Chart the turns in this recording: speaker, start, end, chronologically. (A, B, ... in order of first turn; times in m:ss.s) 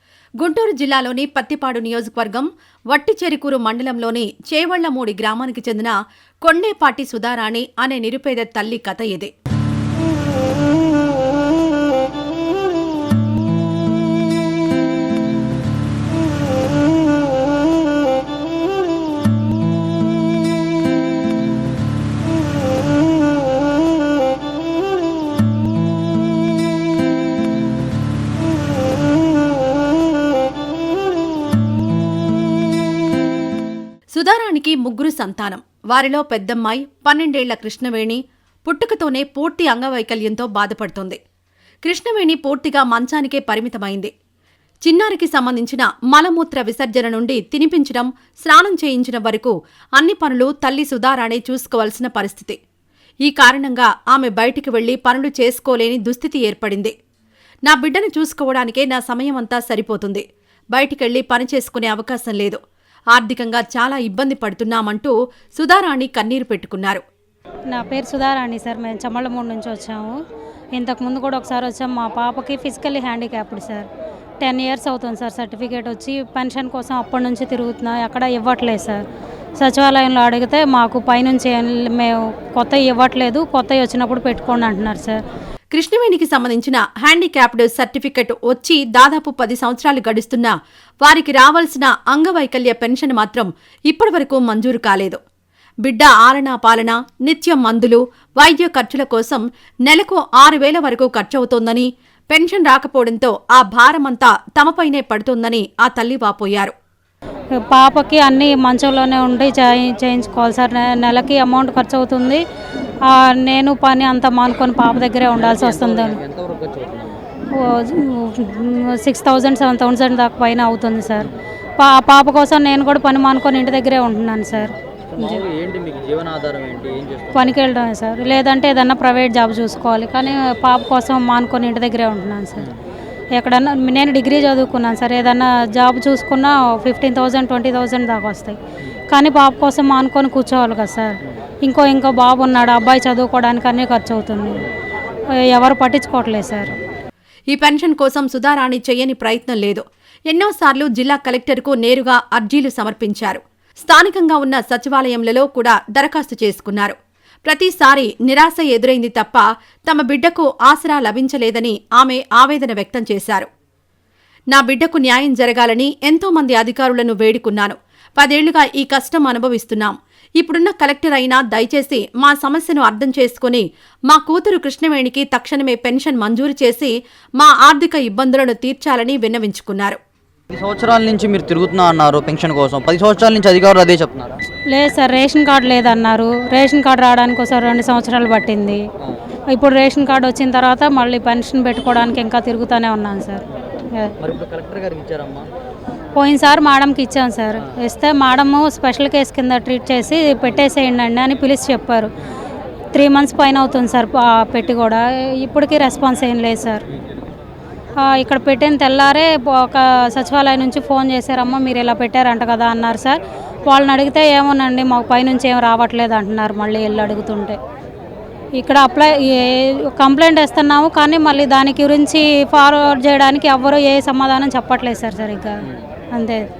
0:00.4-0:09.3 A
0:34.1-0:41.2 A
0:41.8-0:44.1 A
0:44.8-0:52.6 A
0:53.2-0:56.9 A
0:57.6-1:02.6 A
1:03.1-1:07.0 A
1:07.7-1:10.2 B
1:10.8-1:13.9 B
1:14.4-1:19.0 B
1:19.6-1:25.2 B
1:25.7-1:35.2 A
1:35.8-1:46.8 A
1:47.6-1:52.4 B
1:53.0-1:56.2 B
1:55.4-1:57.2 C
1:57.5-2:05.4 B
2:04.6-2:07.5 C
2:07.3-2:12.7 B
2:13.3-2:24.7 B
2:25.4-2:26.8 B
2:27.5-2:43.5 A
2:44.5-3:00.0 A
3:00.5-3:04.4 C
3:04.7-3:08.8 B
3:09.5-3:14.1 B
3:14.2-3:15.5 C
3:16.2-3:22.1 B
3:22.9-3:26.8 B
3:28.0-3:37.6 B
3:38.6-3:45.6 B
3:46.1-3:46.4 B